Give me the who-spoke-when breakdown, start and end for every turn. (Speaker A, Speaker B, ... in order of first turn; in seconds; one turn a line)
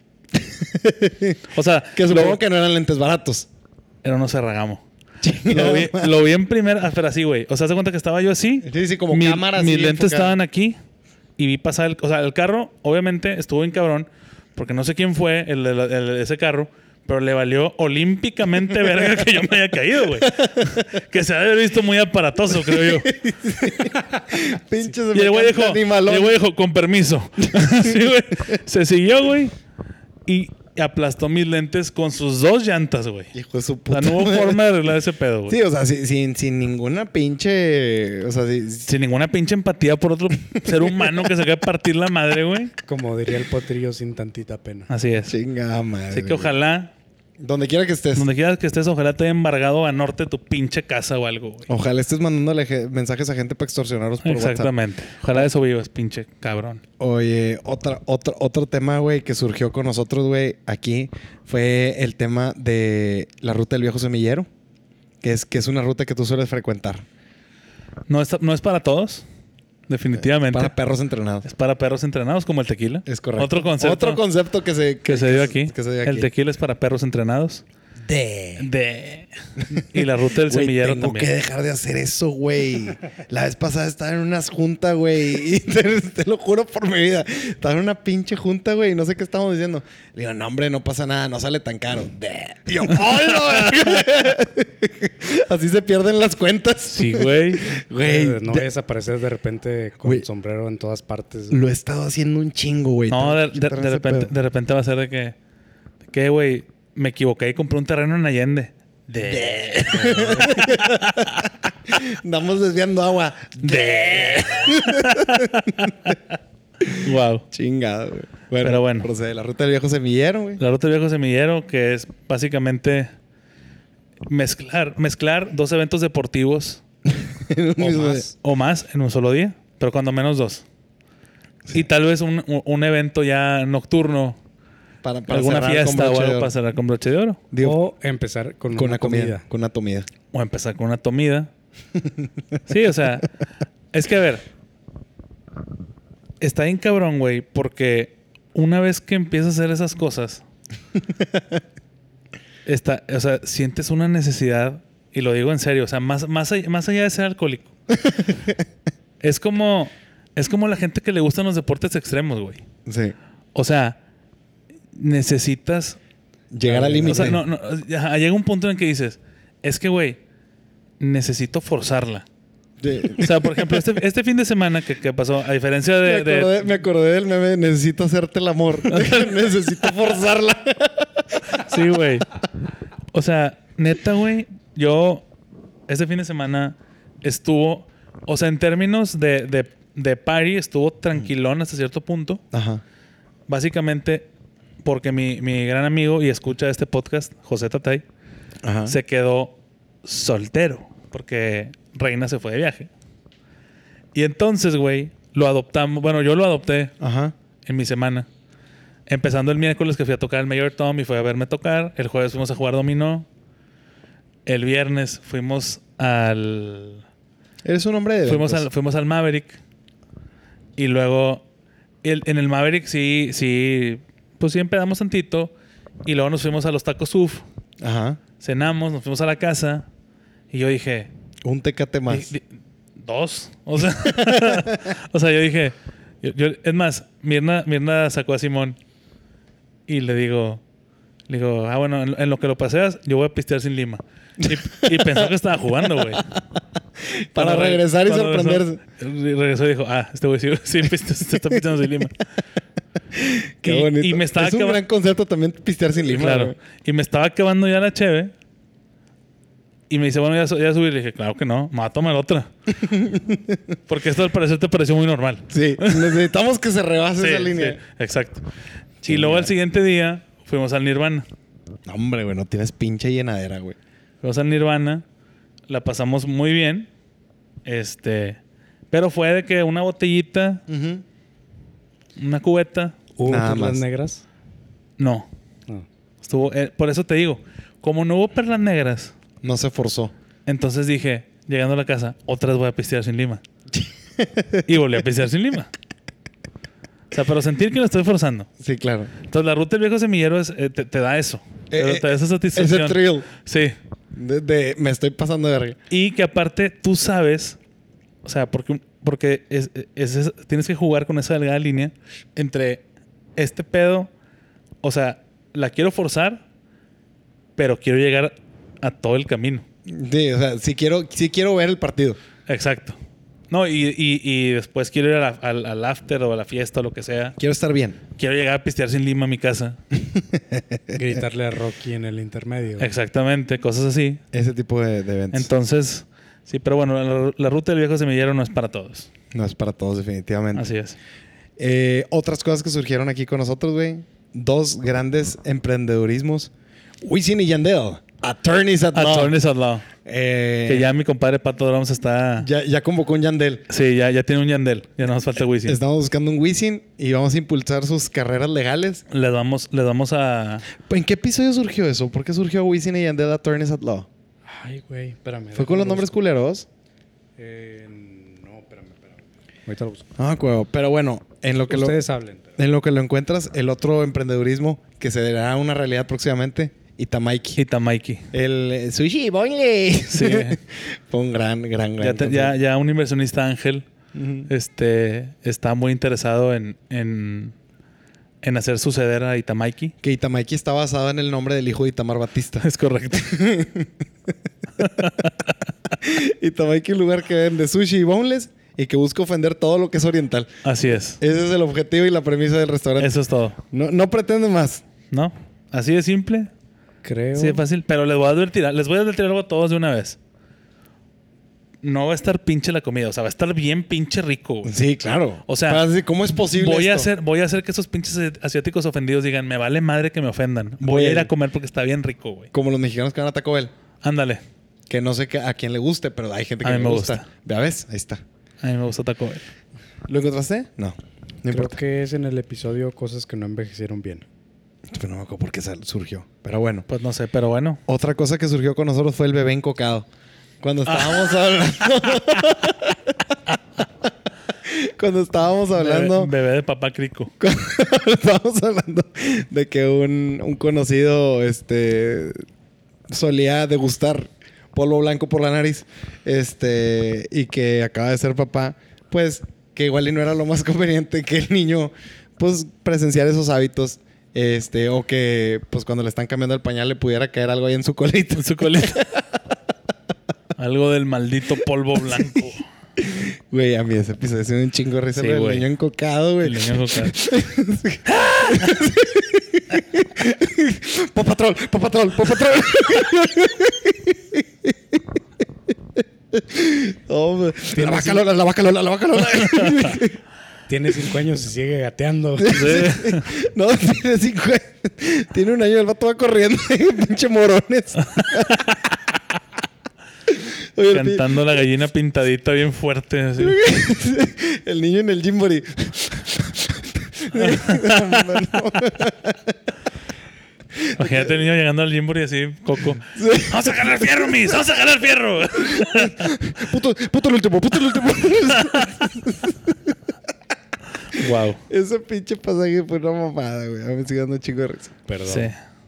Speaker A: 0.4-1.4
Speaker B: 1.5-2.4
Speaker A: 1.9-3.5
Speaker B: 4.0-4.8
Speaker A: 5.2-6.1
Speaker B: 5.5-10.8
Speaker A: 8.6-10.4
Speaker B: 11.4-23.1
Speaker A: 20.2-20.9
Speaker A: 22.6-26.4
Speaker B: 25.1-29.6
Speaker A: 27.4-28.1
Speaker B: 30.3-33.3
Speaker A: 33.3-34.6
Speaker B: 33.9-35.6
Speaker A: 35.5-38.9
Speaker B: 38.9-42.7
Speaker A: 40.7-41.1
Speaker C: 42.9-44.9
Speaker B: 44.9-45.4
Speaker A: 45.3-46.5
Speaker B: 46.1-46.9
Speaker A: 47.4-48.3
Speaker B: 48.1-51.7
Speaker A: 51.7-54.7
Speaker B: 54.2-56.8
Speaker A: 57.0-64.5
Speaker A: 65.2-67.0
Speaker B: 68.1-69.2
Speaker B: 69.9-70.8
Speaker A: 70.4-71.5
Speaker B: 71.4-74.2
Speaker A: 73.1-76.3
Speaker B: 75.1-77.6
Speaker A: 78.0-78.7
Speaker B: 78.6-81.3
Speaker A: 79.7-98.7
Speaker B: 93.4-93.8
Speaker B: 96.9-97.7
Speaker C: 98.0-101.6
Speaker A: 101.5-104.3
Speaker B: 103.1-105.3
Speaker B: 106.1-111.4
Speaker A: 109.2-116.2
Speaker B: 113.6-116.2
Speaker A: 116.8-120.6
Speaker B: 117.0-117.5
Speaker B: 118.6-119.1
Speaker B: 120.6-123.1
Speaker B: 124.3-126.8
Speaker A: 127.1-128.3
Speaker B: 127.8-130.7
Speaker B: 131.7-134.4
Speaker A: 135.0-136.5
Speaker B: 135.3-137.4
Speaker A: 137.5-137.8
Speaker C: 137.6-139.4
Speaker A: 138.7-140.1
Speaker B: 140.3-141.5
Speaker B: 142.7-143.3
Speaker B: 143.9-144.4
Speaker B: 146.4-150.4
Speaker B: 152.7-157.7
Speaker A: 157.9-158.6
Speaker B: 159.2-162.6
Speaker A: 162.9-163.2
Speaker B: 163.6-164.0
Speaker B: 164.9-166.0
Speaker A: 166.5-167.4
Speaker C: 166.7-167.3
Speaker B: 167.0-170.2
Speaker B: 171.0-172.2
Speaker A: 172.8-173.9
Speaker B: 173.2-176.6
Speaker A: 176.0-181.8
Speaker B: 178.9-179.6
Speaker B: 181.6-182.3
Speaker B: 183.1-185.3
Speaker B: 185.9-192.4
Speaker A: 192.5-192.8
Speaker B: 193.5-194.3
Speaker B: 194.8-198.0
Speaker A: 198.6-199.0
Speaker B: 198.9-202.9
Speaker B: 204.1-206.9
Speaker A: 207.0-207.3
Speaker B: 207.7-208.3
Speaker B: 209.1-213.3
Speaker B: 214.5-217.0
Speaker A: 217.7-218.7
Speaker B: 218.3-219.6
Speaker B: 220.8-221.4
Speaker B: 222.0-225.5
Speaker B: 226.1-227.4
Speaker A: 227.8-228.2
Speaker B: 228.4-229.9
Speaker B: 230.5-231.1
Speaker A: 231.4-232.3
Speaker B: 232.1-232.4
Speaker B: 233.0-238.8
Speaker A: 234.0-234.9
Speaker B: 239.9-240.6
Speaker B: 241.3-246.2
Speaker A: 244.4-246.4
Speaker A: 247.0-248.8
Speaker B: 247.3-252.2
Speaker A: 253.1-256.6
Speaker B: 253.7-254.8
Speaker B: 256.1-258.3
Speaker B: 259.9-262.5
Speaker A: 262.7-263.8
Speaker B: 263.9-266.2
Speaker A: 265.5-267.8
Speaker B: 267.2-268.4
Speaker A: 269.0-269.5
Speaker B: 269.1-271.3
Speaker A: 271.9-273.8
Speaker B: 274.2-275.0
Speaker B: 275.7-276.9
Speaker B: 277.6-278.4
Speaker B: 278.9-280.6
Speaker A: 280.7-281.0
Speaker B: 282.2-283.0
Speaker C: 283.2-284.2
Speaker A: 283.2-283.8
Speaker B: 285.0-285.3
Speaker B: 286.2-289.1
Speaker A: 289.4-290.1
Speaker B: 290.5-293.4
Speaker A: 293.7-294.7
Speaker B: 294.7-295.7
Speaker B: 297.1-298.5
Speaker A: 298.6-299.1
Speaker B: 299.3-303.8
Speaker A: 301.7-303.3
Speaker A: 304.1-305.8
Speaker B: 305.9-307.6
Speaker B: 308.2-312.8
Speaker B: 313.4-314.1
Speaker B: 314.8-316.4
Speaker B: 317.6-319.6
Speaker A: 319.9-322.2
Speaker B: 322.5-323.0
Speaker B: 323.5-327.4
Speaker A: 327.4-328.0
Speaker B: 328.1-329.8
Speaker A: 330.0-331.0
Speaker C: 330.9-332.9
Speaker B: 332.8-334.2
Speaker A: 334.3-335.5
Speaker B: 335.3-339.1
Speaker A: 339.3-340.7
Speaker B: 340.6-341.0
Speaker A: 341.6-346.5
Speaker A: 347.0-349.4
Speaker B: 348.9-349.9
Speaker A: 350.1-350.9
Speaker B: 350.7-352.5
Speaker A: 352.4-353.7
Speaker B: 353.7-355.8
Speaker A: 355.6-359.0
Speaker B: 359.1-360.7
Speaker A: 360.8-364.1
Speaker C: 364.5-366.1
Speaker A: 365.6-366.7
Speaker C: 367.4-370.1
Speaker A: 370.2-372.0
Speaker C: 371.7-372.6
Speaker A: 372.6-377.6
Speaker B: 377.6-378.3
Speaker A: 378.3-382.6
Speaker B: 380.1-380.6
Speaker B: 382.0-383.9
Speaker A: 384.1-384.5
Speaker B: 384.5-387.5
Speaker B: 388.4-389.9
Speaker A: 390.0-393.9
Speaker B: 392.6-393.4
Speaker B: 394.8-395.3
Speaker A: 396.0-400.5
Speaker B: 400.6-401.2
Speaker A: 401.2-403.1
Speaker B: 403.0-403.6
Speaker A: 403.7-404.8
Speaker B: 405.1-406.5
Speaker C: 407.0-407.6
Speaker B: 407.4-410.2
Speaker B: 411.8-414.9
Speaker A: 414.6-417.1
Speaker B: 415.4-415.8
Speaker B: 416.5-422.5
Speaker A: 420.8-421.3
Speaker A: 422.5-423.7
Speaker B: 424.0-424.4
Speaker A: 424.9-428.2
Speaker B: 426.6-427.3
Speaker B: 428.6-429.4
Speaker A: 430.1-431.8
Speaker C: 431.5-434.2
Speaker A: 434.9-436.9
Speaker B: 436.9-437.8
Speaker A: 437.9-440.1
Speaker A: 440.6-443.4
Speaker B: 440.9-441.4
Speaker A: 444.6-446.3
Speaker B: 445.8-447.3
Speaker A: 447.4-452.4
Speaker A: 453.1-469.3
Speaker B: 468.4-469.0
Speaker B: 470.6-472.6
Speaker A: 473.0-485.1
Speaker B: 475.2-475.6
Speaker B: 476.4-477.1
Speaker B: 478.1-478.7
Speaker A: 486.0-490.2
Speaker C: 487.7-488.2
Speaker C: 490.7-492.8
Speaker A: 492.4-498.7
Speaker B: 492.5-493.3
Speaker A: 500.3-501.6
Speaker B: 500.9-503.6
Speaker A: 503.4-509.6
Speaker B: 507.4-508.6
Speaker A: 510.8-511.4
Speaker B: 510.9-516.5
Speaker A: 513.1-514.6
Speaker A: 515.6-520.0
Speaker B: 518.5-518.9
Speaker B: 521.1-521.6
Speaker A: 521.7-524.9
Speaker C: 525.1-525.5
Speaker B: 525.3-525.5